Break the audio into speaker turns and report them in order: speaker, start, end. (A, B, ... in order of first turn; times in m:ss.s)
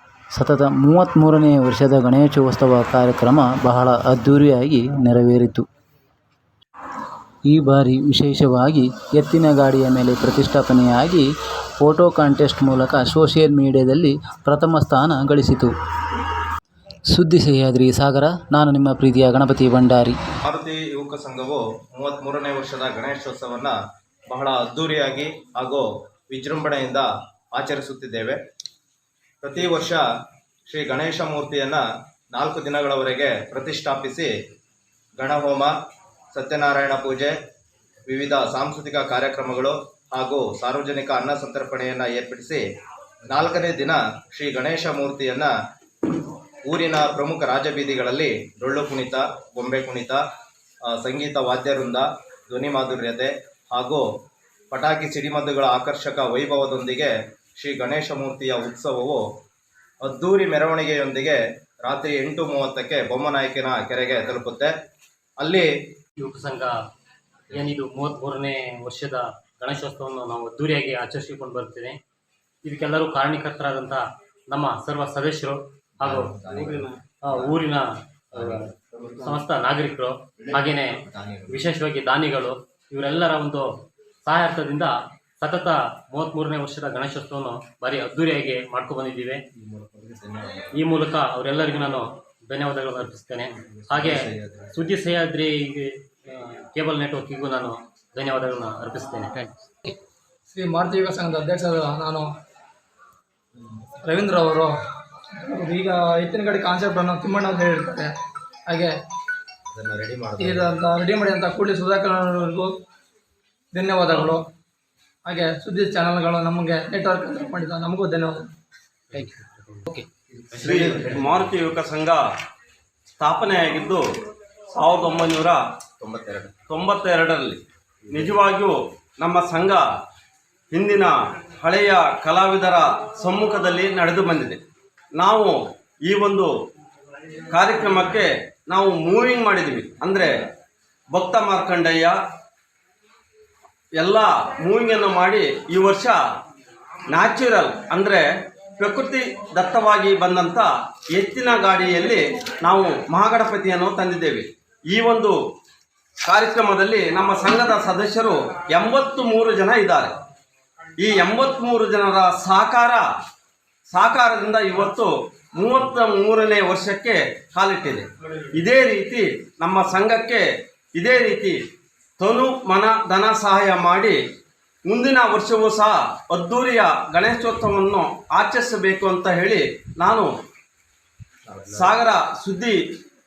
0:00.4-0:05.6 A
0:07.5-0:11.3 A
0:11.8-0:15.7 A
0:17.1-0:20.2 A
0:20.5-0:23.7 B
0:24.3-0:28.4 B
0:29.4-0:30.0 B
0:30.7-0:31.8 B
0:32.3-0:34.3 B
0:35.2-0:35.7 B
0:36.3-0:37.4 B
0:38.1-0:42.6 B
0:43.3-0:45.5 B
0:46.7-0:50.2 B
0:50.9-0:54.0 B
0:54.7-0:59.2 B
1:00.0-1:04.7 B
1:05.4-1:05.7 B
1:06.2-1:06.7 C
1:07.5-1:12.0 C
1:12.6-1:18.7 C
1:16.0-1:17.5 B
1:18.4-1:19.4 B
1:19.2-1:21.0 C
1:20.5-1:21.7 B
1:21.5-1:23.7 C
1:24.2-1:29.4 C
1:29.6-1:30.7 B
1:30.8-1:39.5 C
1:33.7-1:34.7 B
1:40.5-1:42.3 D
1:44.1-1:44.7 D
1:45.4-1:48.1 D
1:49.7-1:50.8 B
1:50.4-1:52.7 D
1:53.7-1:54.4 D
1:55.3-1:58.5 D
1:59.1-1:59.8 C
2:00.4-2:01.5 B
2:00.6-2:02.2 E
2:03.2-2:04.0 E
2:04.7-2:05.6 E
2:06.0-2:06.5 B
2:06.7-2:09.8 E
2:08.1-2:08.4 B
2:10.7-2:14.6 E
2:15.2-2:16.5 E
2:17.5-2:20.4 E
2:21.1-2:22.2 E
2:24.0-2:26.2 E
2:27.1-2:35.4 E
2:36.2-2:40.2 E
2:41.0-2:43.1 E
2:43.9-2:51.6 E
2:52.2-2:54.2 E
2:54.9-3:00.3 E
3:01.5-3:02.0 B
3:01.7-3:02.8 E